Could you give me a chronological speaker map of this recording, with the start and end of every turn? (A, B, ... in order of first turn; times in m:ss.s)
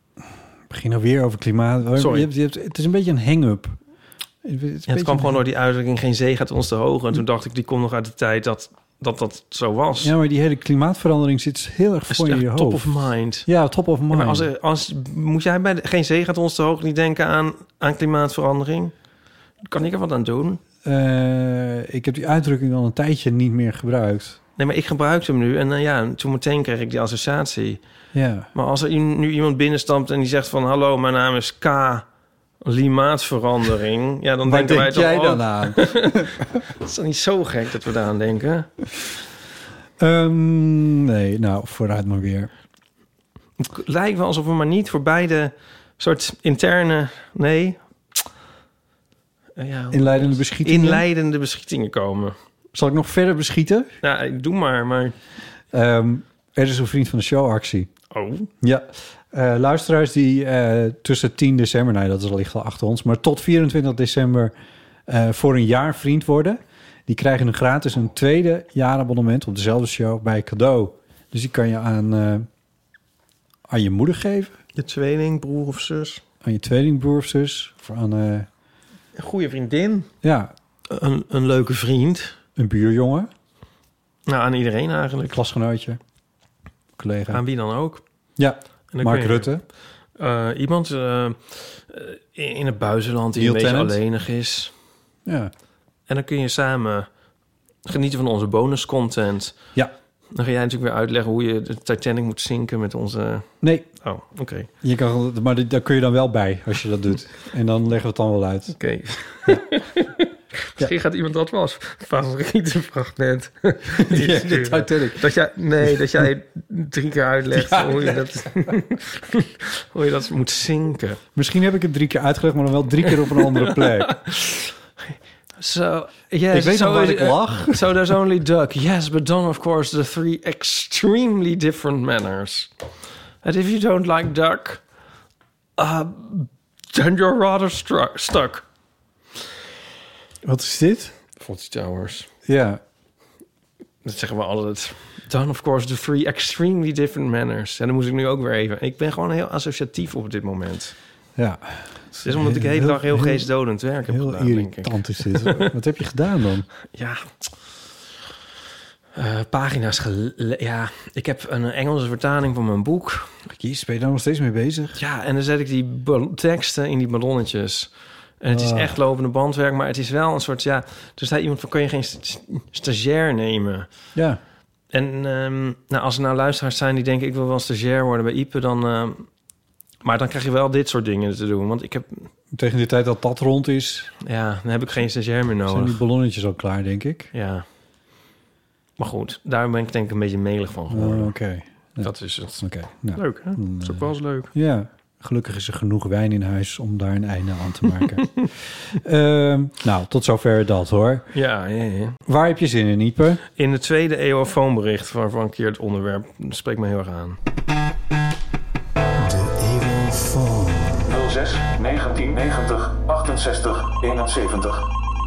0:00.7-0:03.8 A
0:02.0-0:02.3 B
0:04.4-0:05.4 A
0:04.9-0:10.1 B
0:10.0-0:14.5 A
0:12.1-0:13.5 B
0:14.1-0:18.9 B
0:19.6-0:20.6 B
0:20.8-0:24.4 A
0:24.6-0:27.8 B
0:28.1-0:28.5 A
0:28.5-0:32.0 B
0:32.6-0:36.1 B
0:34.4-0:36.4 A
0:36.8-0:38.7 B
0:40.0-0:42.5 A
0:43.6-0:48.2 B
0:49.6-0:52.4 B
0:49.9-0:51.0 A
0:52.7-0:53.9 A
0:54.0-0:55.2 B
0:55.7-0:57.9 A
0:58.1-0:58.5 B
0:58.6-1:04.5 A
1:05.1-1:12.5 A
1:13.7-1:14.6 A
1:14.7-1:16.2 B
1:16.4-1:18.5 A
1:19.2-1:20.1 B
1:20.2-1:20.5 A
1:20.9-1:22.4 B
1:22.6-1:23.3 A
1:24.3-1:25.4 B
1:25.3-1:26.0 A
1:27.0-1:27.4 A
1:27.3-1:28.0 B
1:28.4-1:29.6 A
1:28.9-1:29.5 B
1:30.2-1:34.7 B
1:33.4-1:34.0 A
1:35.2-1:35.5 A
1:36.1-1:37.1 B
1:37.8-1:39.6 B
1:40.3-1:43.5 B
1:43.6-1:43.9 A
1:44.0-1:44.7 B
1:44.8-1:48.8 A
1:48.7-2:01.2 B
1:54.0-1:55.3 A
1:57.5-1:58.5 A
2:01.3-2:04.1 A
2:03.3-2:04.7 B
2:05.6-2:12.7 B
2:06.5-2:07.8 A
2:13.4-2:14.8 B
2:15.8-2:18.6 B
2:20.4-2:21.1 A
2:21.4-2:22.3 B
2:22.4-2:22.8 A
2:24.0-2:30.9 B
2:31.4-2:33.5 A
2:32.2-2:35.7 B
2:34.1-2:36.7 A
2:36.9-2:37.5 B
2:39.2-2:43.3 B
2:43.5-2:45.0 A
2:44.9-2:53.9 B
2:48.5-2:49.0 A
2:54.1-2:54.4 A
2:54.9-2:59.3 B
3:00.0-3:02.3 B
3:02.5-3:04.1 A
3:04.2-3:06.0 B
3:05.7-3:07.3 A
3:07.3-3:07.6 B
3:09.0-3:11.3 B
3:10.9-3:21.3 A
3:12.0-3:14.5 B
3:21.3-3:22.2 B
3:22.2-3:23.4 A
3:23.5-3:27.4 B
3:29.2-3:31.2 A
3:31.1-3:34.7 C
3:32.3-3:33.9 A